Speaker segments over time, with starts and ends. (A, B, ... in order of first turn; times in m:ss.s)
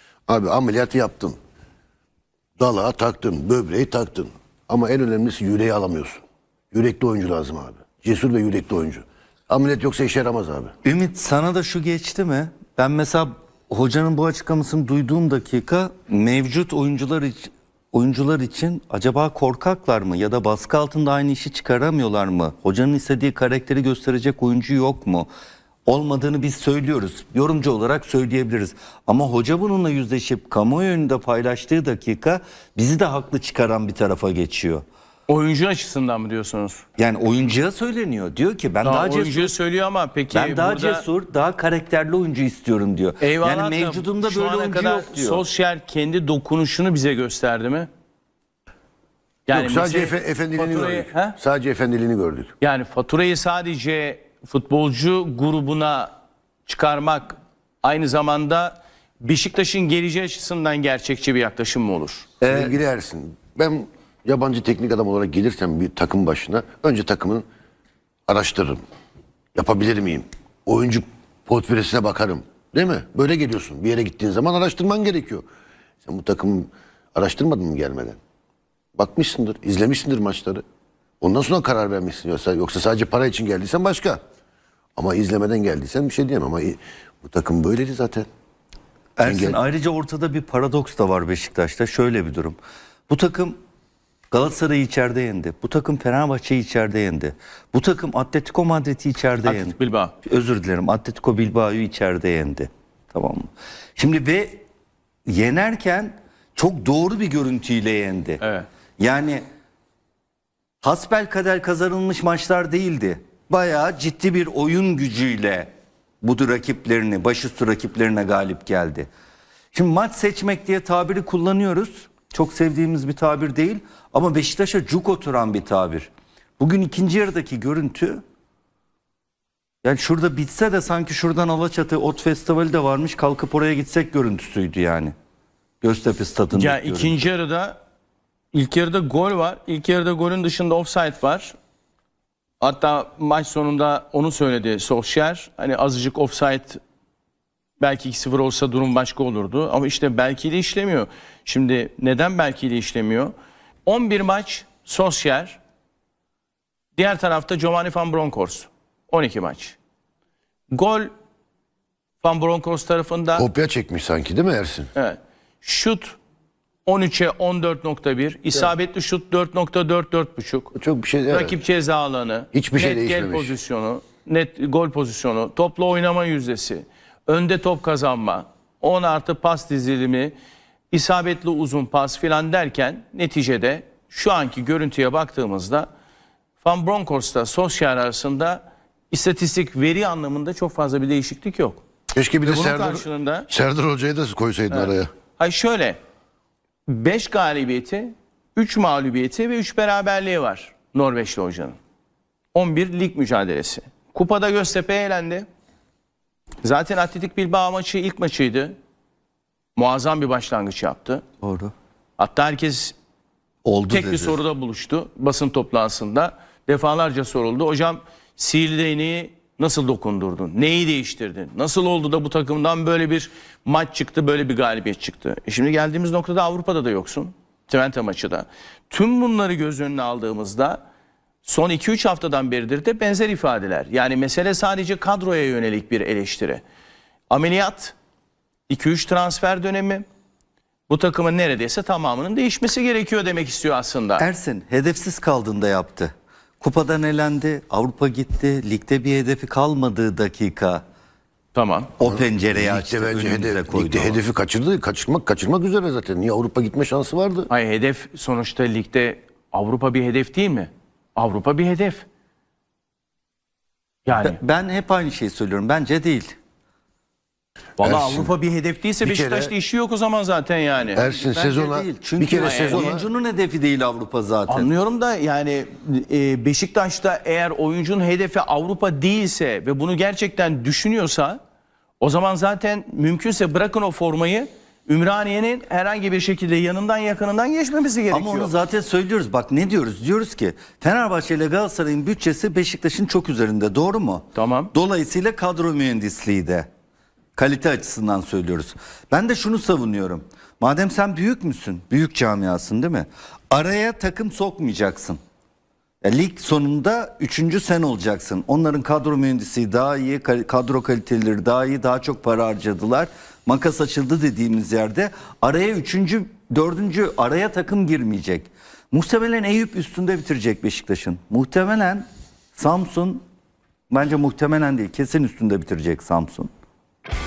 0:00.3-0:01.4 A
0:02.6-0:10.7 A
0:10.8-0:25.3 B
0:25.9-0:34.8 B
0:35.3-0:36.8 C
0:37.0-0:39.5 B
0:38.8-0:41.0 C
0:40.3-0:45.4 B
0:43.2-0:47.9 C
0:49.5-0:51.4 C
0:49.5-0:52.5 A
0:52.6-0:56.1 C
0:56.7-1:02.3 C
1:02.4-1:02.8 B
1:02.4-1:07.4 A
1:08.3-1:08.8 A
1:09.6-1:15.5 A
1:16.0-1:18.2 A
1:19.0-1:20.6 A
1:21.2-1:24.2 A
1:25.0-1:28.3 A
1:29.2-1:32.6 B
1:29.2-1:29.6 A
1:33.1-1:33.6 B
1:34.3-1:44.6 B
1:39.4-1:40.1 C
1:45.3-1:48.4 B
1:48.4-1:48.7 C
1:49.0-1:49.4 B
1:50.8-1:55.7 B
1:56.2-1:59.1 B
1:59.7-2:08.2 B
2:09.8-2:15.1 B
2:15.8-2:17.2 B
2:16.5-2:17.8 C
2:18.5-2:21.6 C
2:22.6-2:26.8 C
2:27.8-2:33.3 C
2:33.9-2:35.6 C
2:37.0-2:39.8 C
2:40.7-2:41.1 C
2:42.2-2:43.4 C
2:43.3-2:44.9 A
2:45.0-2:46.2 C
2:46.9-2:50.7 C
2:50.7-2:51.6 A
2:51.3-3:00.3 C
2:52.5-2:53.6 A
3:00.9-3:05.9 C
3:06.6-3:11.8 C
3:12.1-3:15.1 A
3:12.4-3:13.5 C
3:14.7-3:16.0 C
3:16.9-3:21.8 C
3:22.5-3:25.5 C
3:26.6-3:28.8 C
3:29.8-3:31.2 C
3:31.4-3:31.7 B
3:32.2-3:33.0 C
3:33.6-3:34.4 B
3:33.9-3:50.8 C
3:51.4-3:56.6 C
3:57.3-3:58.0 C
3:58.7-4:00.0 C
4:00.9-4:04.2 C
4:04.2-4:10.8 B
4:11.6-4:11.9 C
4:12.0-4:14.2 B
4:12.0-4:17.5 A
4:17.5-4:22.0 C
4:24.1-4:24.4 C
4:24.2-4:26.3 B
4:27.8-4:28.3 A
4:27.8-4:31.0 C
4:29.0-4:29.5 A
4:30.9-4:33.1 A
4:31.0-4:34.7 B
4:32.3-4:33.0 C
4:34.5-4:41.4 C
4:42.0-4:48.6 C
4:48.1-4:56.7 B
4:54.4-4:54.7 C
4:57.4-5:05.2 B
5:06.0-5:23.2 B
5:23.9-5:26.5 B